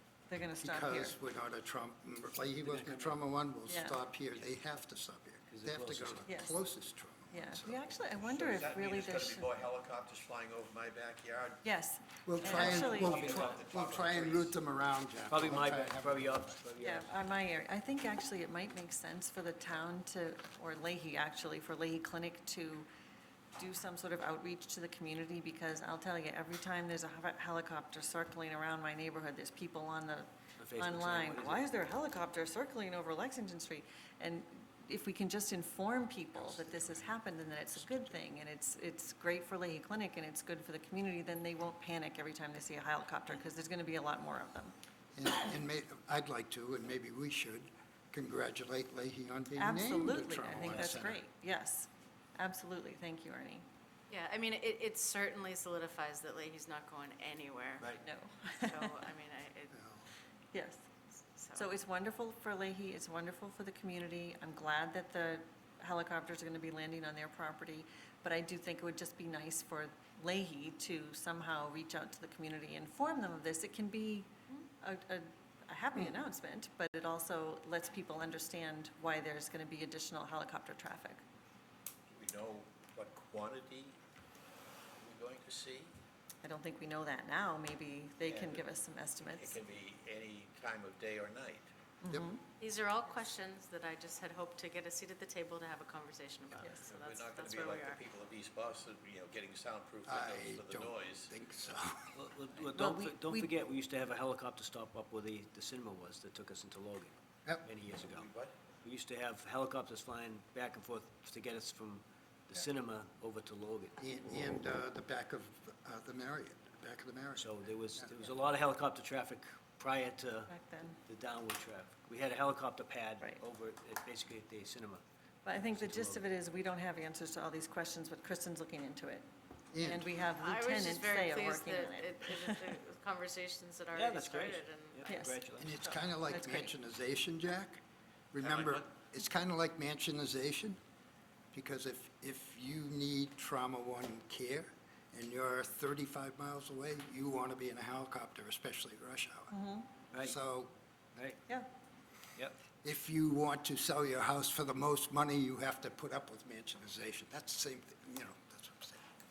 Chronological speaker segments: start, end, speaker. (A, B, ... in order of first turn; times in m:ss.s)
0:00.3-0:01.2 A
0:00.6-0:07.8 B
0:02.6-0:03.2 C
0:03.7-0:04.0 A
0:05.5-0:06.3 C
0:06.2-0:06.6 A
0:07.3-0:09.5 A
0:08.2-0:11.6 D
0:11.6-0:13.6 A
0:12.2-0:16.6 B
0:12.4-0:14.5 D
0:13.0-0:13.6 C
0:15.3-0:17.1 C
0:16.8-0:22.9 A
0:23.6-0:44.7 A
0:30.6-0:31.7 C
0:36.4-0:37.1 B
0:37.8-0:38.2 B
0:45.2-0:51.2 B
0:49.6-0:53.6 A
0:54.1-0:58.0 E
0:58.0-0:59.0 A
0:58.5-0:59.7 E
0:59.7-1:00.1 B
1:00.5-1:00.8 A
1:01.3-1:01.7 E
1:01.5-1:21.2 A
1:22.1-1:24.0 D
1:25.0-1:26.0 D
1:26.4-1:29.6 A
1:28.2-1:28.6 D
1:29.4-1:31.7 D
1:32.0-1:32.4 A
1:32.6-1:38.0 E
1:36.6-1:41.3 D
1:36.6-1:36.9 A
1:40.0-1:42.2 B
1:42.1-1:48.3 C
1:42.7-1:43.5 A
1:48.1-1:48.6 D
1:48.8-1:54.0 C
1:54.0-1:58.2 B
1:57.4-2:00.5 C
2:00.5-2:01.0 A
2:01.0-2:05.0 C
2:05.4-2:09.3 A
2:05.6-2:06.2 C
2:09.7-2:10.1 B
2:09.8-2:12.6 A
2:10.4-2:15.1 E
2:13.9-2:16.0 C
2:15.1-2:15.4 A
2:15.6-2:17.8 B
2:16.3-2:16.7 A
2:18.3-2:20.8 B
2:18.4-2:18.9 D
2:21.5-2:29.5 B
2:29.5-2:29.9 A
2:30.2-2:30.7 B
2:31.2-2:31.4 C
2:32.8-2:39.0 B